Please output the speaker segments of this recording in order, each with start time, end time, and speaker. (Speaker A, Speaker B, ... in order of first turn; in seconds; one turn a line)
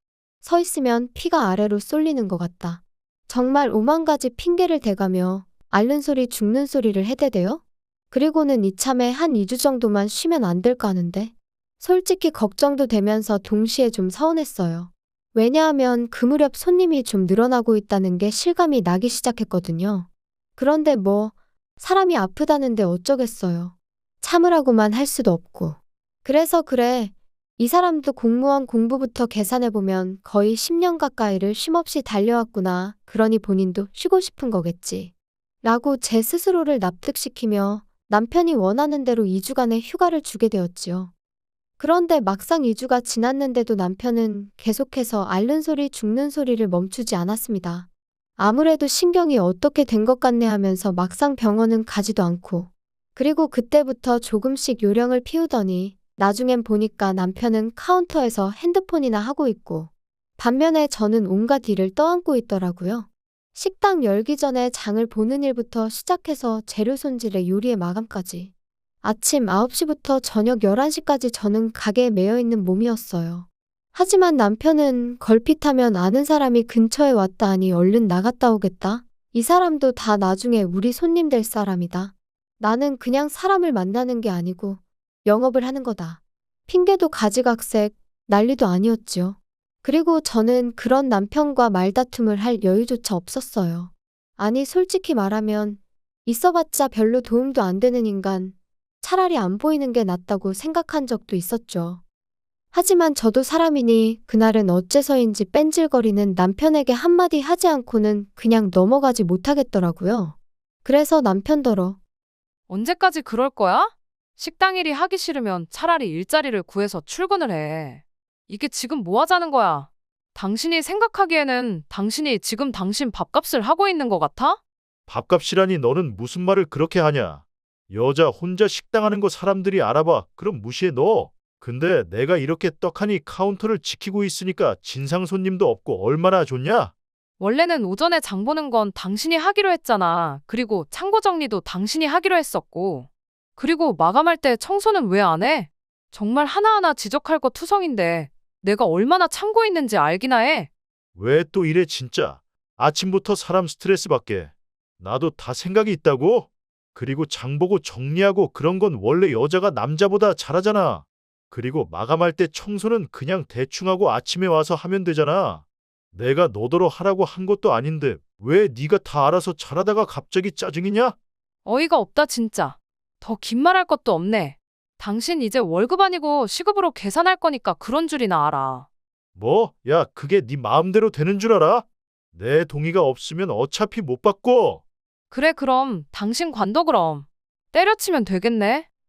Speaker A: 0.4-35.1
Speaker A: 35.6-41.1
Speaker A: 41.8-68.5
Speaker A: 69.0-102.0
Speaker A: 102.7-112.0
Speaker B: 112.7-124.6
Speaker C: 125.1-136.9
Speaker B: 137.4-150.7
Speaker C: 151.1-171.1
Speaker B: 171.6-178.8
Speaker C: 179.3-184.8
Speaker B: 185.3-188.8